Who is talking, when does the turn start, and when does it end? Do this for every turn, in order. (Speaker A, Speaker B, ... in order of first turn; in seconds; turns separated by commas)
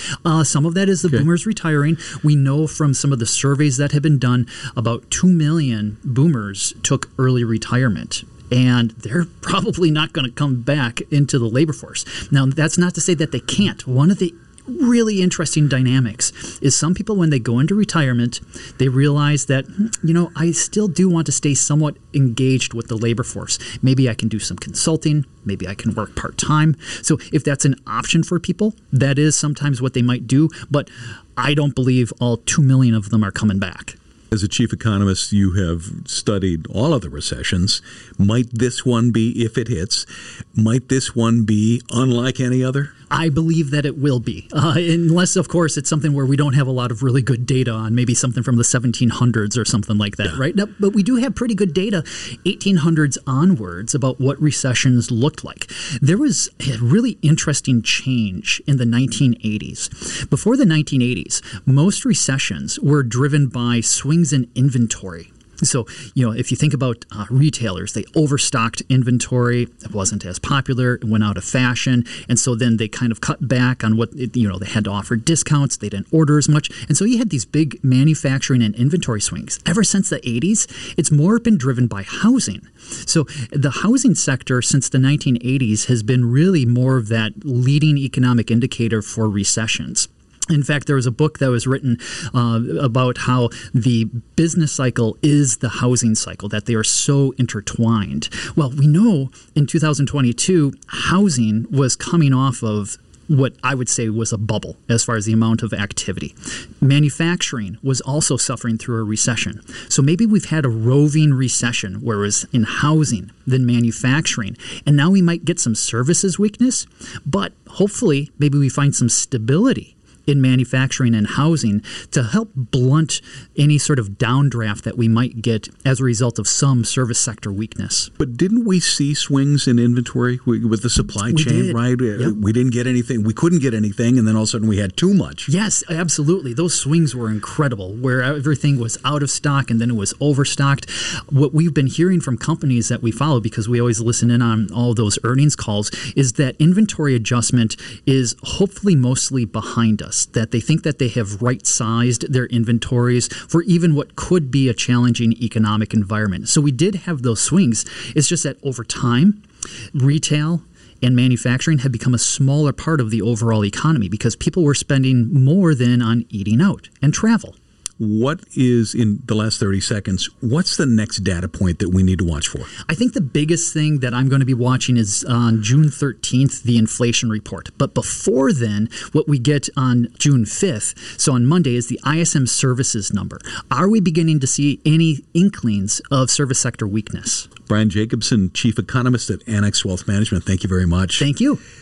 Speaker A: 0.2-34.0, Speaker B: 34.3-42.9, Speaker A: 43.1-128.1, Speaker B: 128.2-135.5, Speaker A: 131.3-132.3, Speaker A: 135.5-159.4, Speaker A: 159.9-167.6, Speaker B: 168.0-172.7, Speaker A: 172.8-187.6, Speaker B: 187.7-191.3, Speaker A: 191.2-191.6